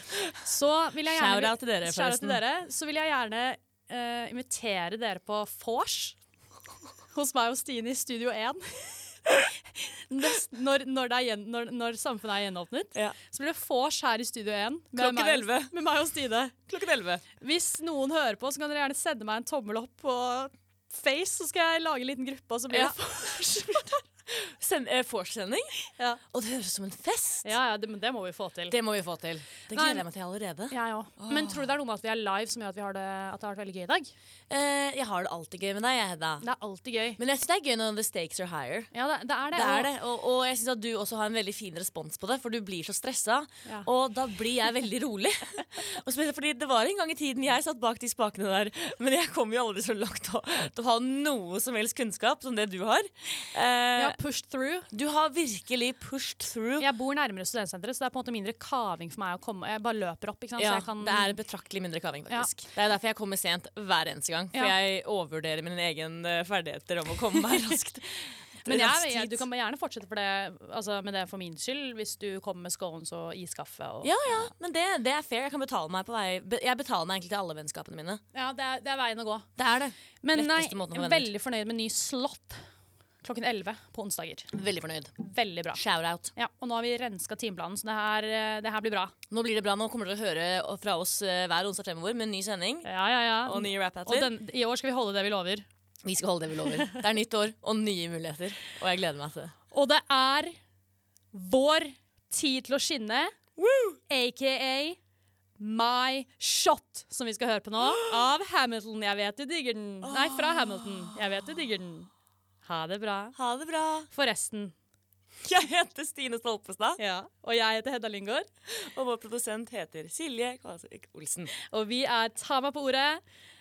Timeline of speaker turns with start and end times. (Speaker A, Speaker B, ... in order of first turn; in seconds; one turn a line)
Speaker A: 0.3-6.2
Speaker B: 1.1-2.4
Speaker A: 7.1-16.5
Speaker B: 14.9-15.7
Speaker B: 16.7-17.2
Speaker A: 17.4-24.0
Speaker B: 22.7-22.9
Speaker B: 24.3-25.8
Speaker B: 26.3-27.5
Speaker A: 27.4-28.7
Speaker B: 28.7-31.6
Speaker A: 29.7-30.0
Speaker A: 30.7-34.1
Speaker B: 34.5-36.4
Speaker A: 36.4-37.2
Speaker B: 37.2-38.9
Speaker A: 38.9-39.9
Speaker B: 39.5-54.1
Speaker A: 54.0-54.9
Speaker B: 54.9-56.9
Speaker A: 56.8-61.3
Speaker B: 60.6-69.4
Speaker A: 62.3-62.5
Speaker A: 68.7-74.5
Speaker B: 74.0-78.2
Speaker A: 78.3-79.5
Speaker B: 79.6-81.3
Speaker A: 80.2-82.6
Speaker A: 83.2-84.5
Speaker B: 84.5-85.1
Speaker A: 85.2-85.8
Speaker B: 85.7-86.3
Speaker A: 86.3-89.1
Speaker B: 89.3-92.9
Speaker A: 92.8-95.7
Speaker B: 93.4-94.3
Speaker B: 96.0-99.5
Speaker A: 99.7-100.5
Speaker A: 101.3-103.3
Speaker B: 103.6-104.0
Speaker A: 104.1-105.0
Speaker A: 105.6-112.1
Speaker B: 107.8-108.2
Speaker B: 110.0-111.2
Speaker A: 112.6-113.3
Speaker B: 113.3-114.1
Speaker A: 114.1-114.7
Speaker B: 115.4-117.0
Speaker A: 117.0-118.5
Speaker B: 118.7-121.5
Speaker A: 121.5-123.2